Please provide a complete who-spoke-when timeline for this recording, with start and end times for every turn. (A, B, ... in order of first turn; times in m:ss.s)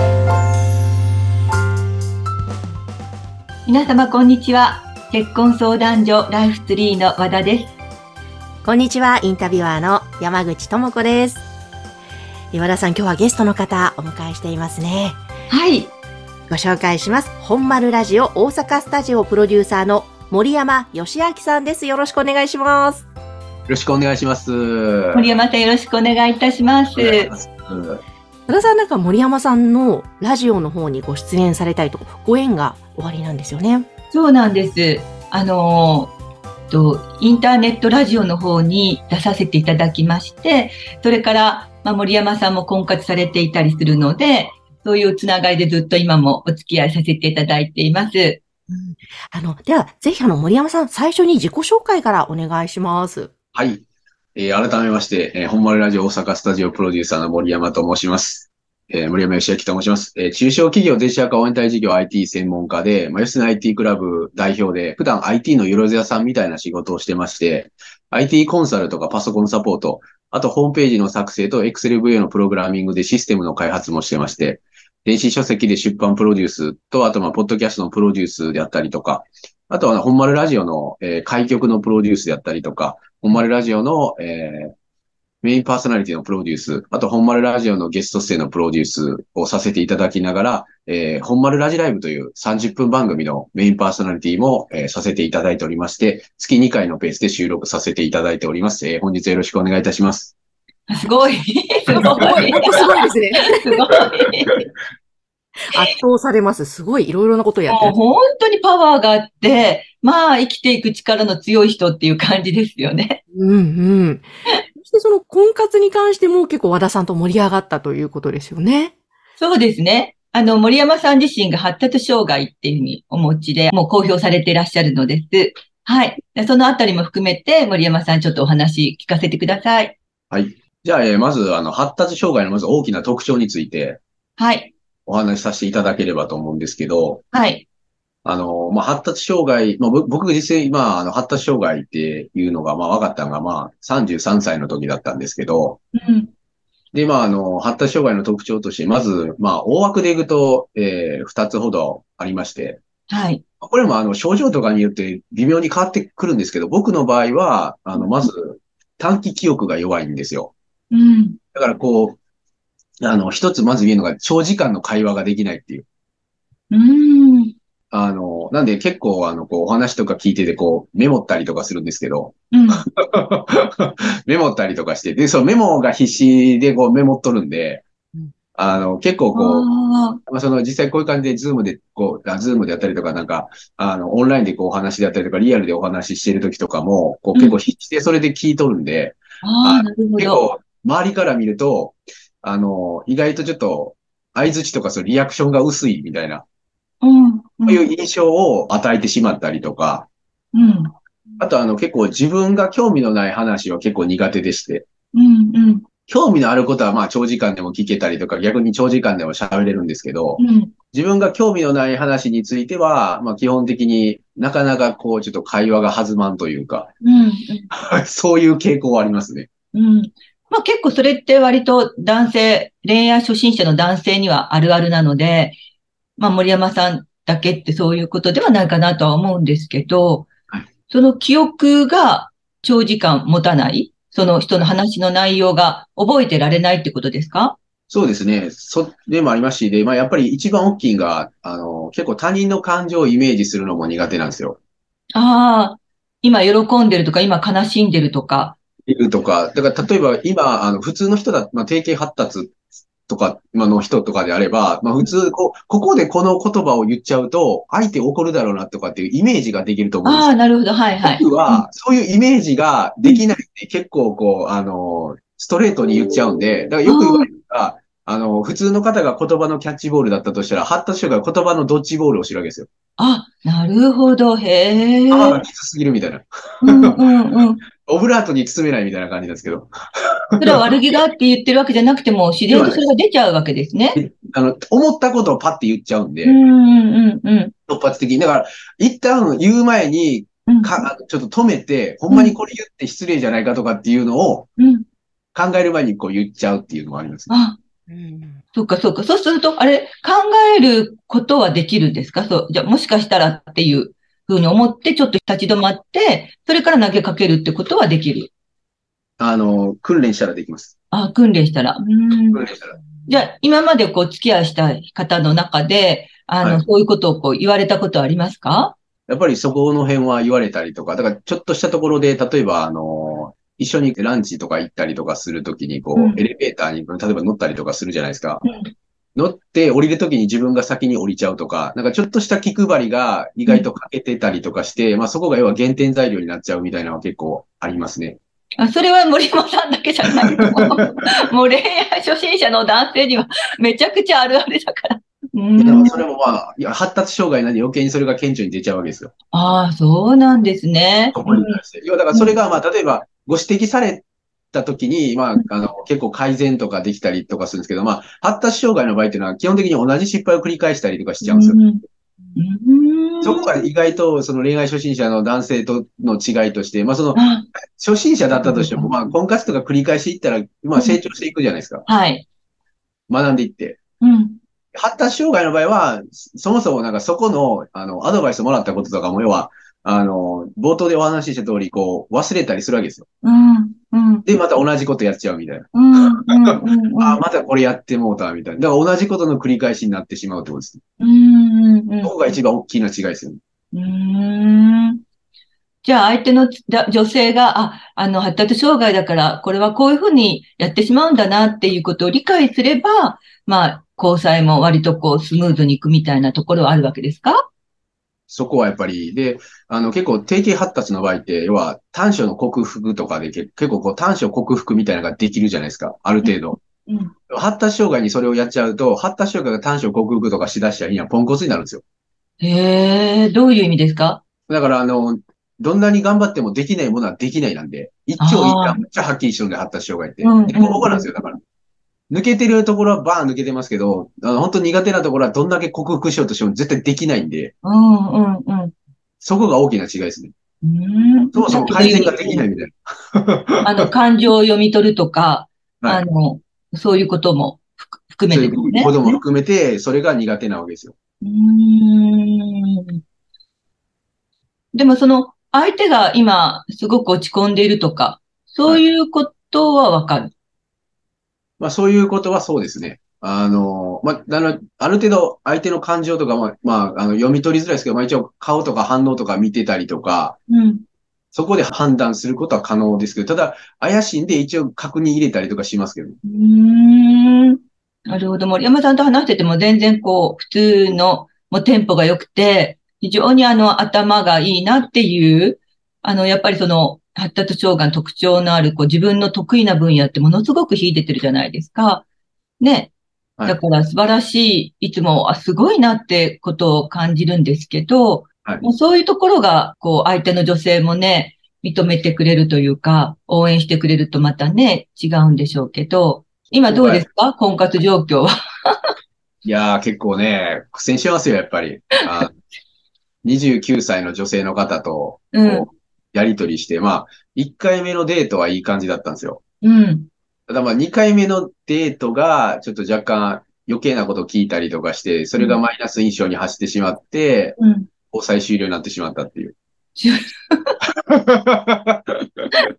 0:03.6-0:07.7 A
0:08.6-0:11.5 B
0:12.5-0:15.2 B
0:15.5-0:15.9 A
0:16.5-0:23.1 B
0:23.7-0:25.2 C
0:25.1-0:27.3 A
0:27.0-0:28.0 C
0:28.5-0:33.9 B
0:34.1-0:36.1 A
0:36.7-0:48.4 A
0:48.7-0:53.3 B
0:53.5-0:53.8 C
0:54.4-1:24.7 C
1:25.4-1:40.3 C
1:40.9-1:44.6 A
1:41.9-1:43.7 B
1:42.1-1:42.6 C
1:45.7-1:47.9 B
1:47.7-1:53.2 A
1:53.3-1:58.9 B
1:59.4-2:10.0 A
2:10.3-2:14.0 C
2:14.4-2:14.7 A
2:15.1-2:17.2 C
2:17.3-2:17.7 A
2:18.2-2:25.8 C
2:25.9-2:26.3 A
2:26.9-2:32.8 C
2:33.1-2:33.4 A
2:33.6-2:40.5 C
2:40.9-2:41.4 A
2:41.5-2:42.2 C
2:43.0-2:45.8 C
2:46.7-2:47.5 A
2:47.9-2:57.8 C
2:52.5-2:52.8 A
2:58.6-2:59.7 C
2:59.3-3:00.2 A
3:00.3-3:16.4 C
3:09.4-3:10.4 A
3:17.0-3:17.8 A
3:17.7-3:20.1 C
3:20.5-3:20.9 A
3:21.4-3:24.8 C
3:25.1-3:25.9 A
3:26.1-3:30.4 C
3:30.4-3:30.7 A
3:30.9-3:36.9 C
3:37.0-3:37.7 A
3:37.7-3:39.5 C
3:39.7-3:45.6 A
3:46.2-3:50.3 A
3:50.9-3:57.6 A
3:57.9-4:04.6 C
4:05.2-4:08.6 A
4:08.9-4:12.5 C
4:13.1-4:20.3 C
4:20.0-4:21.6 A
4:21.0-4:32.7 C
4:26.8-4:27.3 A
4:33.0-4:35.4 A
4:35.1-4:37.0 C
4:36.6-4:37.6 A
4:37.8-4:40.7 C
4:40.4-4:44.0 A
4:42.5-4:42.8 C
4:43.9-4:46.4 C
4:46.2-4:47.5 A
4:47.7-4:54.5 C
4:50.5-4:50.7 A
4:54.6-4:54.8 A
4:55.3-4:57.3 C
4:57.3-4:57.6 A
4:57.9-4:58.4 B
4:58.5-5:08.3 A
5:09.2-5:10.7 C
5:10.9-5:12.4 A
5:12.3-5:12.8 C
5:13.1-5:18.8 A
5:19.1-5:28.4 C
5:25.9-5:26.2 A
5:28.4-5:28.7 A
5:29.2-5:38.2 C
5:38.6-5:46.0 A
5:45.6-5:49.1 C
5:49.3-5:51.6 A
5:51.1-6:01.6 C
6:01.2-6:01.8 A
6:02.4-6:03.5 A
6:03.2-6:07.2 C
6:07.1-6:07.4 A
6:07.8-6:11.8 C
6:08.3-6:08.9 A
6:11.8-6:12.2 A
6:13.1-6:13.8 C
6:14.0-6:14.4 A
6:14.7-6:23.1 C
6:23.2-6:24.2 A
6:24.2-6:25.8 C
6:25.7-6:27.2 A
6:27.0-6:30.8 C
6:31.0-6:32.1 A
6:32.0-6:33.4 C
6:33.7-6:35.0 A
6:35.8-6:47.4 A
6:48.3-6:56.6 C
6:56.2-6:57.1 A
6:57.3-7:01.8 C
7:02.4-7:04.2 A
7:04.5-7:11.4 C
7:08.2-7:08.8 A
7:10.2-7:11.1 A
7:12.1-7:17.5 C
7:17.6-7:18.7 A
7:19.2-7:20.3 C
7:20.6-7:22.4 A
7:21.3-7:23.8 C
7:23.6-7:29.1 A
7:28.3-7:30.9 C
7:31.2-7:33.0 A
7:34.7-7:40.3 A
7:41.6-7:50.4 C
7:50.5-7:50.8 A
7:51.3-7:56.2 C
7:56.2-8:12.0 A
8:12.6-8:12.9 A
8:13.4-8:28.8 A
8:26.7-8:27.0 C
8:29.4-8:32.4 C
8:33.2-8:39.4 C
8:35.3-8:35.7 A
8:39.6-8:40.1 A
8:40.5-8:47.6 C
8:47.6-8:47.9 A
8:48.1-8:49.6 C
8:50.0-8:50.8 A
8:51.1-8:52.4 C